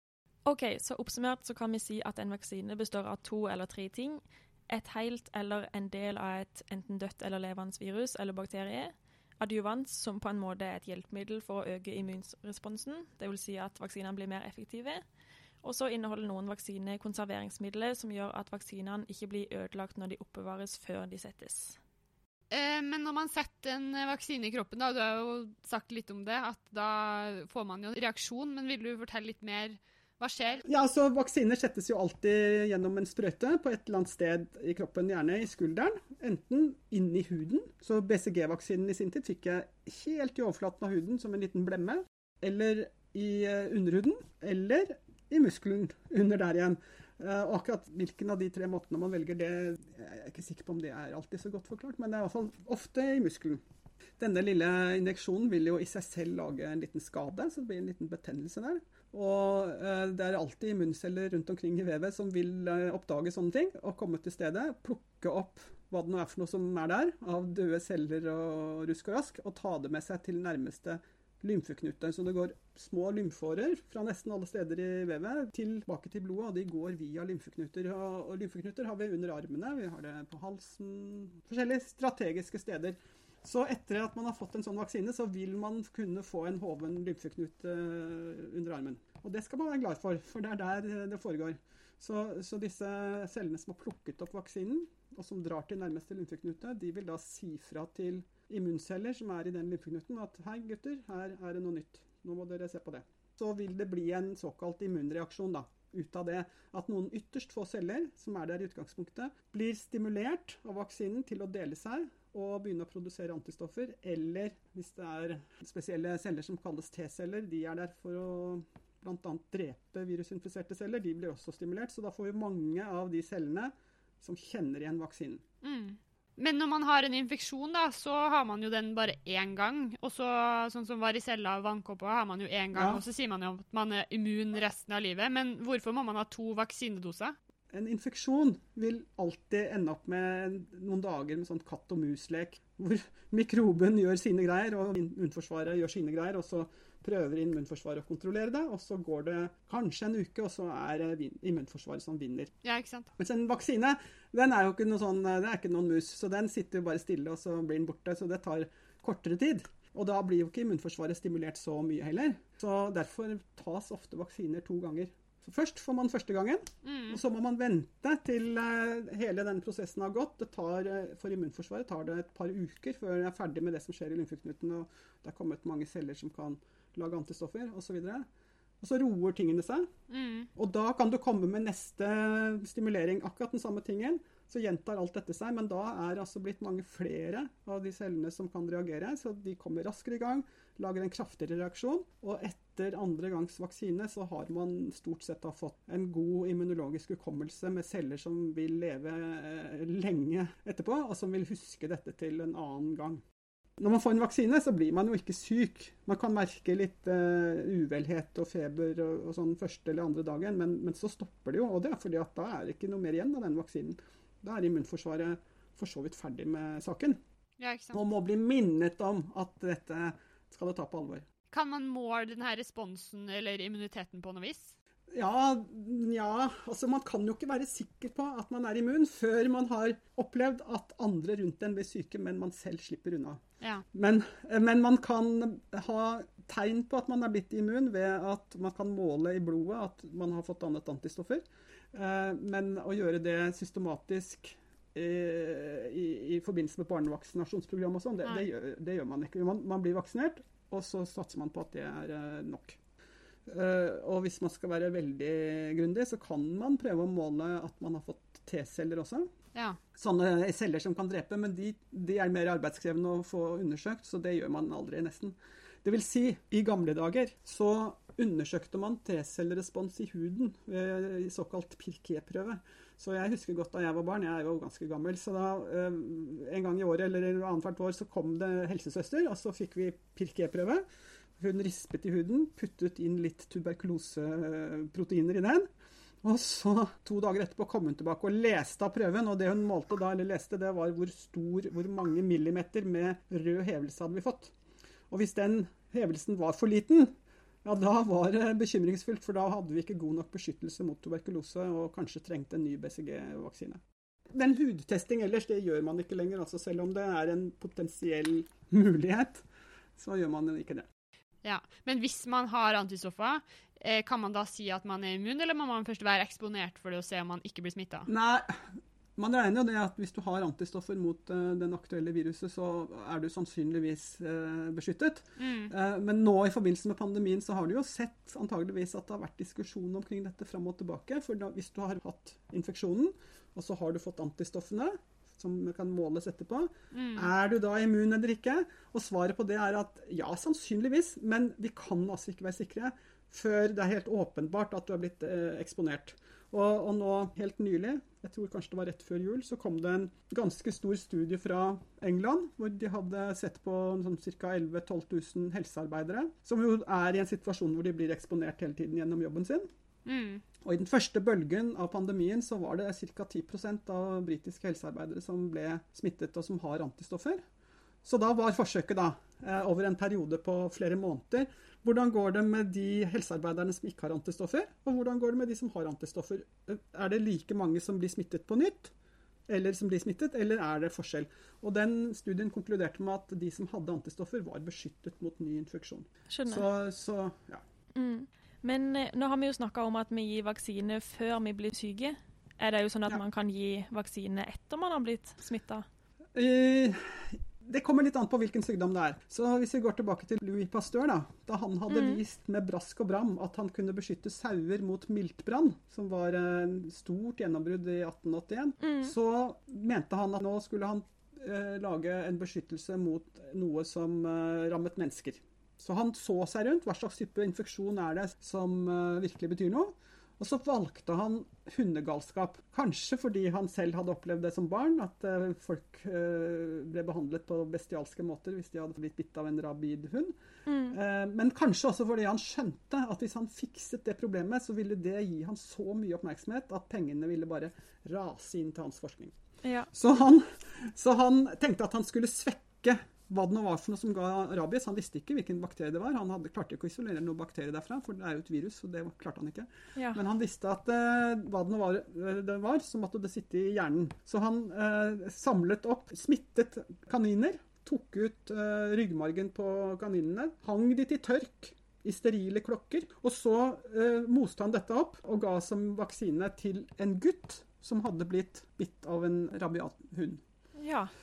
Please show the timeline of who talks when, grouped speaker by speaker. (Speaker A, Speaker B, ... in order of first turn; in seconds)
Speaker A: 0.5-15.0, 15.6-21.8, 386.3-386.6, 387.9-395.9, 401.9-402.2, 408.8-409.1, 430.6-431.0, 439.6-439.9, 470.8-471.1
Speaker B: 22.5-30.6, 125.6-137.3, 152.6-153.1, 166.8-167.2, 180.1-180.5, 217.6-218.0, 221.5-224.7, 311.4-318.1, 325.4-325.7, 336.9-337.3, 360.1-360.4
Speaker C: 30.7-53.6, 54.2-125.4, 132.7-133.0, 137.7-152.5, 153.2-178.2, 178.8-179.9, 180.6-203.2, 203.8-217.2, 217.9-221.2, 225.1-233.4, 233.9-252.8, 253.5-259.3, 259.9-280.8, 281.4-285.7, 286.2-294.5, 295.1-297.1, 297.6-309.4, 309.9-310.9, 318.1-359.6, 360.6-367.4, 368.0-378.9, 379.5-387.6, 396.3-430.3, 430.9-439.3, 439.9-470.4